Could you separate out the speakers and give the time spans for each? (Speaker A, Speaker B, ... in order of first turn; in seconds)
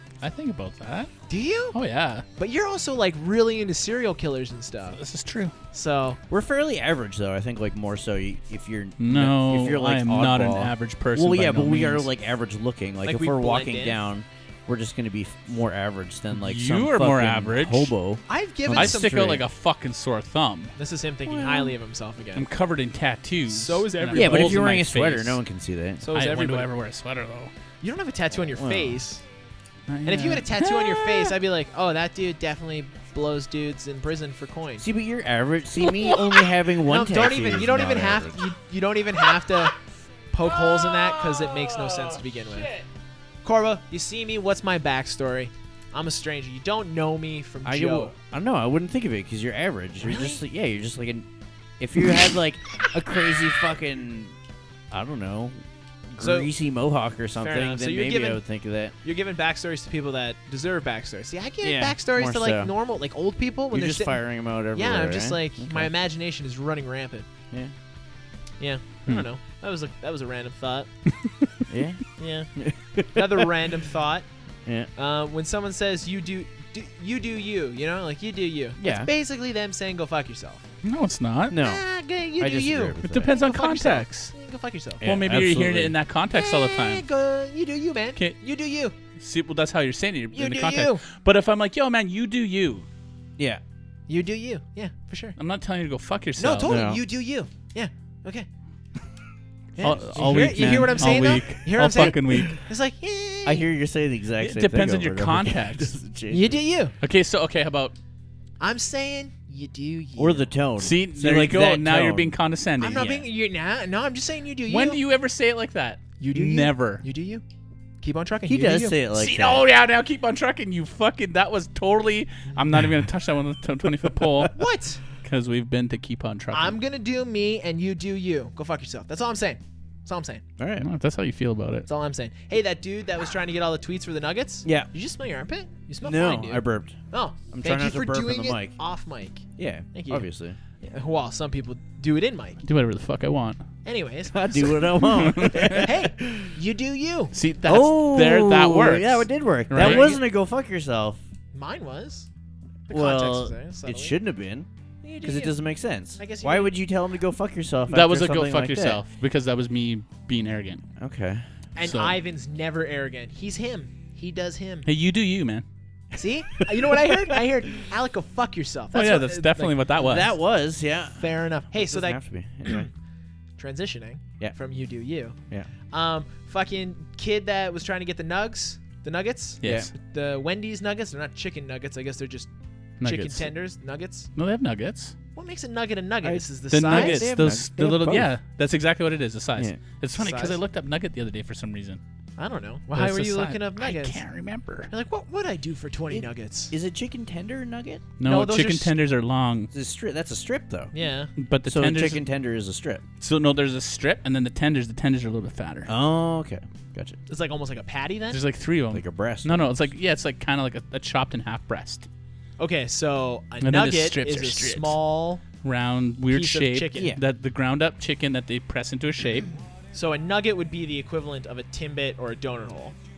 Speaker A: 0.2-1.1, 1.7-2.2, 5.0-5.5, 9.0-12.1, 16.3-17.9, 18.7-20.7, 22.3-25.4, 26.1-27.5, 29.9-31.3, 40.4-42.8, 80.8-81.6, 83.0-84.3, 85.0-87.0, 89.2-92.8, 95.4-96.7, 99.8-102.6, 104.4-105.9, 107.0-108.0, 110.8-113.1, 114.7-117.0, 119.1-124.5, 125.2-126.8, 130.8-131.9, 142.6-143.6, 145.1-145.8, 147.3-150.2, 157.9-160.8, 161.8-162.2, 164.8-165.6, 168.9-170.3, 179.6-179.9, 183.0-183.5, 184.3-185.1, 186.7-192.0, 192.9-194.9, 198.2-199.7, 201.3-202.2, 203.2-205.9, 208.3-212.1, 213.6-215.0, 215.6-219.5
Speaker B: 1.3-1.8, 2.4-5.0, 5.7-6.2, 13.0-14.0, 18.3-19.4, 20.8-22.5, 23.5-24.7, 26.0-26.7, 27.8-29.2, 30.0-34.9, 36.1-39.7, 40.3-42.7, 43.4-48.1, 50.0-50.4, 56.2-56.5, 57.4-58.4, 59.0-67.3, 68.6-70.9, 72.2-72.5, 73.1-74.2, 75.0-80.6, 81.5-85.0, 86.3-89.0, 90.3-91.0, 94.1-95.3, 96.4-98.5, 99.8-103.7, 106.3-106.9, 108.6-110.5, 112.8-115.0, 116.2-117.4, 118.0-119.0, 124.5-125.0, 126.5-130.4, 131.9-140.3, 140.8-142.6, 143.8-147.3, 149.7-150.2, 151.5-152.3, 152.9-154.2, 155.0-155.6, 156.2-156.7, 161.8-164.9, 166.1-169.9, 171.2-172.9, 173.6-175.4, 175.9-182.5, 183.0-184.3, 185.3-187.3, 190.2-190.6, 192.4-194.2, 194.9-196.7, 198.2-198.9, 200.9-201.3, 207.3-208.4, 212.6-215.4, 216.3-217.1, 219.9-222.9
Speaker C: 6.3-19.4, 21.2-21.8, 24.1-26.0, 28.5-29.0, 34.8-38.5, 47.6-54.3, 54.9-58.9, 61.6-62.7, 63.7-65.9, 71.7-72.0, 72.5-73.5, 78.8-79.1, 81.5-81.8, 82.4-83.3, 85.0-85.9, 96.6-97.0, 99.7-101.4, 101.9-102.5, 103.4-106.6, 110.2-112.3, 113.0-113.2, 118.5-119.6, 124.2-124.5, 130.6-130.9, 134.6-134.9, 136.0-137.0, 137.5-138.8, 139.6-140.6, 144.3-146.6, 147.6-151.2, 152.9-154.7, 155.2-159.0, 161.0-161.4, 166.6-167.4, 170.0-172.9, 179.6-179.9, 186.2-188.3, 189.6-189.8, 196.1-198.1, 199.7-200.9, 201.7-203.0, 205.8-207.2, 208.9-209.7, 216.9-217.2